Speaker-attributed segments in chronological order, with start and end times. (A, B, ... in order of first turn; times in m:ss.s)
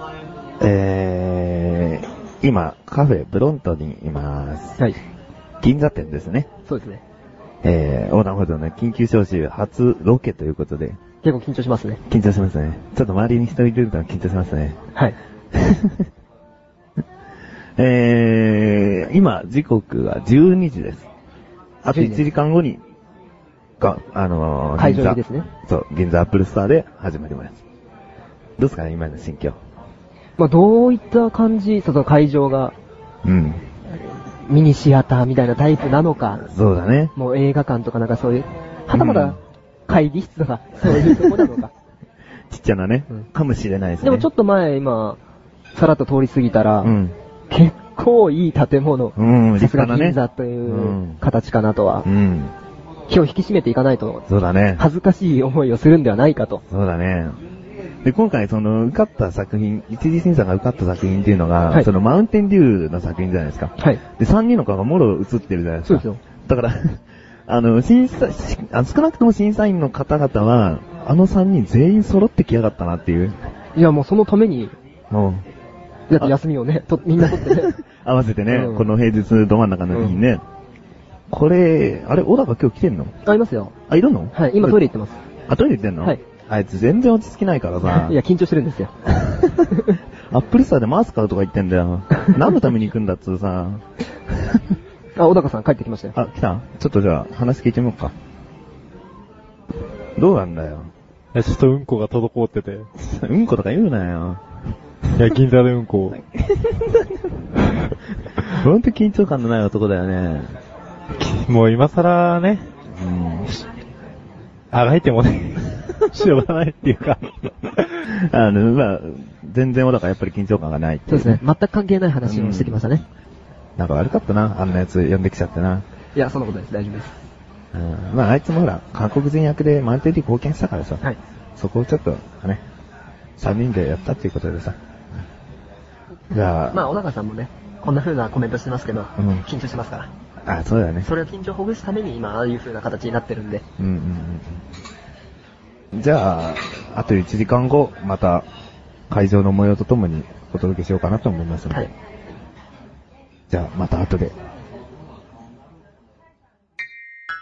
0:00.6-0:04.8 A
0:05.6-0:06.5 A
0:06.7-0:07.0 B
0:07.6-0:11.0 A
0:11.2-0:12.0 B
0:12.1-0:14.8 A
0:15.6-0:16.1 A
0:17.8-0:21.1 A
0:21.8-0:22.8 A
0:21.9-0:22.2 B
0:23.8-0:27.6 A
0:24.8-0:25.5 B
0:28.6-0:29.6 A
0:30.4-0:32.8 B
0:33.2-0:33.6 A
0:33.9-0:36.4 B
0:36.5-0:37.1 A
0:37.2-0:41.7 B
0:38.9-0:39.4 A
0:42.5-0:44.3 A
0:44.0-0:45.2 B
0:45.7-0:46.9 B
0:46.8-0:47.2 A
0:47.5-0:52.1 B
0:49.2-0:51.2 A
0:52.0-0:52.5 A
0:53.1-0:54.3 B
0:54.3-0:54.8 A
0:54.8-0:56.6 B
0:56.7-0:57.4 A
0:58.0-1:13.4 A
1:05.9-1:06.2 B
1:13.8-1:14.8 B
1:15.1-1:15.4 A
1:16.1-1:17.7 B
1:17.3-1:20.4 A
1:18.5-1:18.9 B
1:21.3-1:23.2 A
1:23.2-1:23.7 B
1:23.9-1:24.8 A
1:24.3-1:25.2 B
1:25.5-1:28.2 A
1:27.8-1:28.9 B
1:30.3-1:33.8 A
1:35.2-1:36.2 B
1:36.2-1:38.1 A
1:40.2-1:40.9 A
1:41.3-1:42.9 C
1:43.0-1:44.4 A
1:45.2-1:46.2 C
1:46.1-1:47.3 A
1:48.4-1:50.5 A
1:51.2-1:52.7 C
1:52.9-1:53.5 A
1:54.7-1:57.8 C
1:58.1-2:01.4 A
2:01.1-2:03.0 B
2:02.2-2:03.0 A
2:03.8-2:05.8 A
2:06.2-2:07.2 B
2:07.7-2:11.0 A
2:11.6-2:12.6 A
2:13.4-2:14.8 A
2:16.3-2:16.8 A
2:16.7-2:20.1 B
2:20.5-2:21.1 A
2:21.0-2:23.6 B
2:23.8-2:24.6 A
2:25.9-2:28.5 A
2:29.1-2:31.9 A
2:33.5-2:34.3 A